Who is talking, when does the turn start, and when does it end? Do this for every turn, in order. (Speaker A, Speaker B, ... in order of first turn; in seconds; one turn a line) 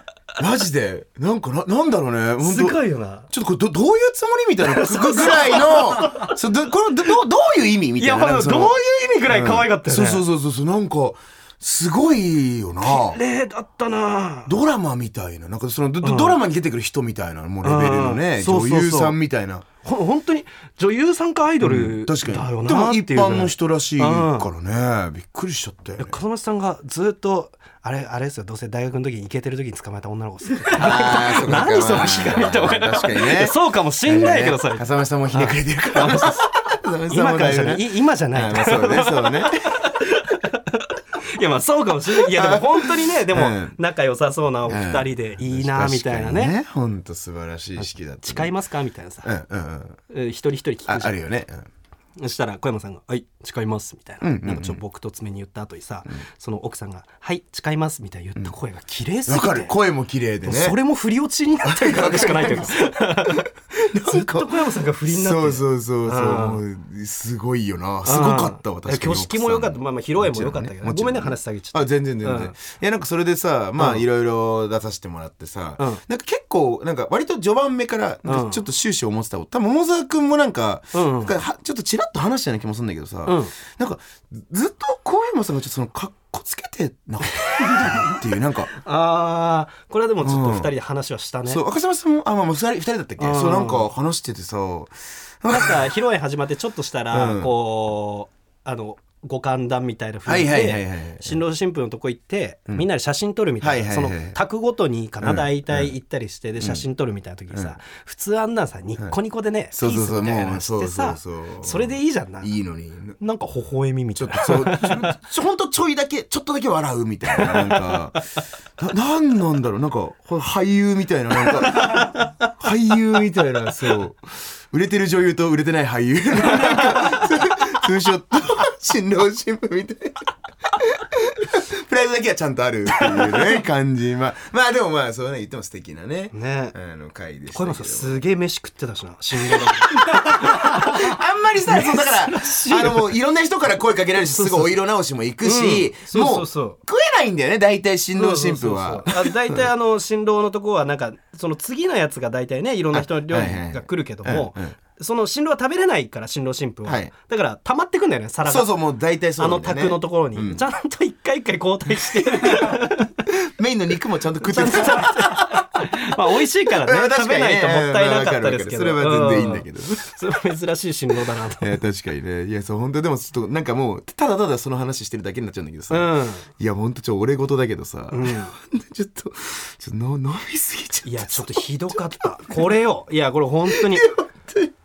Speaker A: 0.4-8.8
Speaker B: 2.4-3.3
Speaker B: 4.6-6.3
Speaker B: 8.0-10.2
Speaker A: 9.3-13.2
Speaker B: 12.8-14.5
Speaker A: 14.5-19.7
Speaker B: 16.0-16.4
Speaker B: 17.6-19.2
Speaker B: 19.8-24.5
Speaker A: 21.6-26.2
Speaker B: 26.0-36.5
Speaker A: 30.7-39.8
Speaker B: 37.1-46.5
Speaker A: 42.1-43.8
Speaker A: 44.7-48.5
Speaker B: 47.8-49.3
Speaker A: 49.2-50.0
Speaker B: 50.1-51.2
Speaker A: 50.9-51.7
Speaker B: 52.2-59.8
Speaker A: 54.2-54.8
Speaker A: 59.3-60.8
Speaker B: 60.4-63.5
Speaker A: 61.6-88.7
Speaker B: 64.0-66.6
Speaker B: 68.0-72.5
Speaker B: 73.8-74.0
Speaker B: 78.3-78.6
Speaker B: 80.9-81.3
Speaker B: 83.3-83.5
Speaker B: 87.5-88.2
Speaker B: 88.7-91.6
Speaker A: 90.2-90.7
Speaker A: 91.5-95.9
Speaker B: 93.2-93.9
Speaker B: 95.5-112.5
Speaker A: 97.1-97.5
Speaker A: 100.3-101.4
Speaker A: 103.6-104.4
Speaker A: 105.2-105.9
Speaker A: 109.7-113.2
Speaker B: 113.2-115.2
Speaker A: 114.2-118.2
Speaker B: 117.3-118.0
Speaker A: 118.8-138.2
Speaker B: 121.7-122.3
Speaker B: 126.6-127.1
Speaker B: 136.3-136.8
Speaker B: 137.5-143.1
Speaker A: 139.5-149.7
Speaker B: 144.3-144.7
Speaker B: 145.4-146.8
Speaker B: 148.2-158.7
Speaker A: 152.9-154.7
Speaker A: 156.8-157.1
Speaker A: 158.4-160.6
Speaker B: 159.4-163.1
Speaker A: 162.1-170.2
Speaker B: 164.4-171.8
Speaker A: 171.6-182.6
Speaker B: 175.9-176.5
Speaker B: 178.1-178.5
Speaker B: 181.1-184.1
Speaker A: 183.7-184.7